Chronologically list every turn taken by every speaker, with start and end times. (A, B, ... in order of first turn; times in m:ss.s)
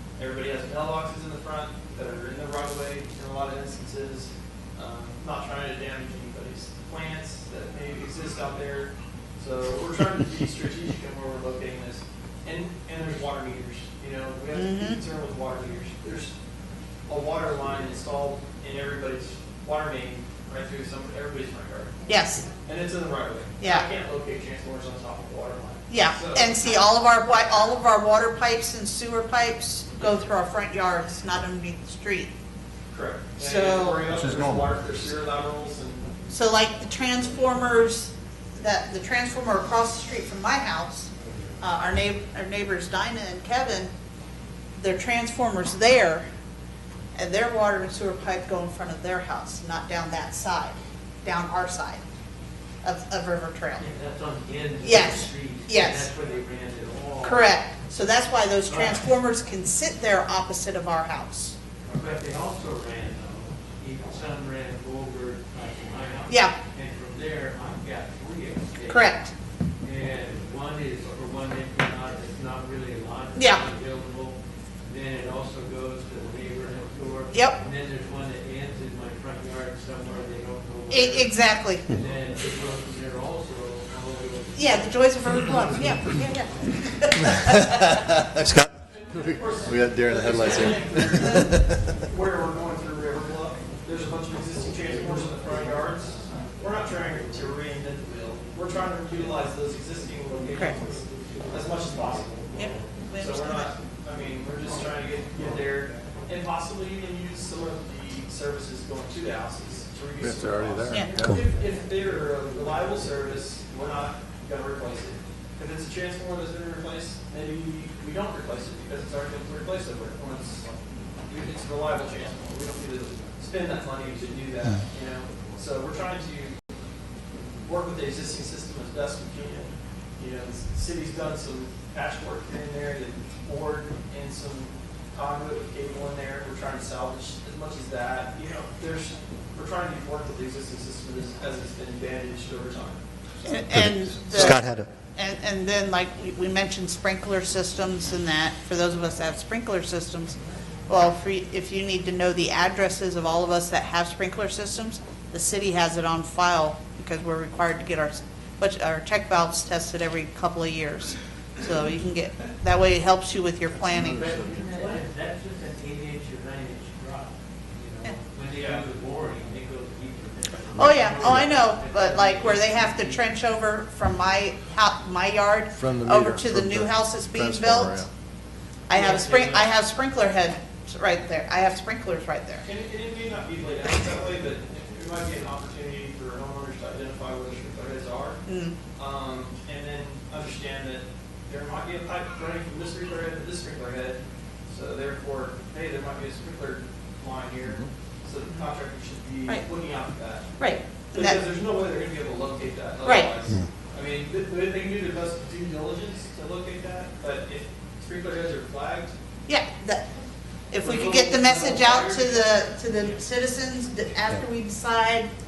0:00.2-0:16.3 A
0:14.5-0:15.0 B
0:17.1-0:21.9 A
0:22.1-0:22.4 B
0:22.6-0:26.5 A
0:23.6-0:23.8 B
0:25.9-0:32.3 B
0:32.9-0:36.1 A
0:33.4-0:34.1 B
0:36.3-0:43.9 B
0:44.8-0:46.2 B
0:47.2-0:52.0 B
0:52.8-0:53.8 B
0:53.8-0:57.5 C
0:54.8-0:56.1 B
0:57.2-1:01.6 B
0:58.7-0:59.0 C
1:01.9-1:09.2 C
1:06.3-1:06.5 B
1:08.9-1:09.3 B
1:09.8-1:24.9 C
1:13.4-1:13.6 B
1:20.9-1:21.8 B
1:24.5-1:27.7 B
1:28.3-1:28.6 D
1:28.8-2:00.7 A
1:29.5-1:31.6 D
1:42.6-1:43.7 B
1:50.2-1:51.4 D
1:50.9-1:51.3 B
2:01.3-2:06.7 A
2:07.6-2:23.6 A
2:23.4-2:30.4 B
2:30.9-2:44.3 B
2:44.0-2:53.2 C
2:48.5-2:48.9 A
2:50.7-2:58.0 B
2:55.7-2:58.1 D
2:58.9-3:02.6 B
2:58.9-2:59.7 A
3:02.6-3:08.4 A
3:08.4-3:08.8 B
3:09.0-3:20.6 A
3:20.6-3:21.4 B
3:21.1-3:29.1 A
3:23.0-3:23.3 B
3:29.5-3:30.1 B
3:30.7-3:35.3 B
3:30.8-3:33.0 A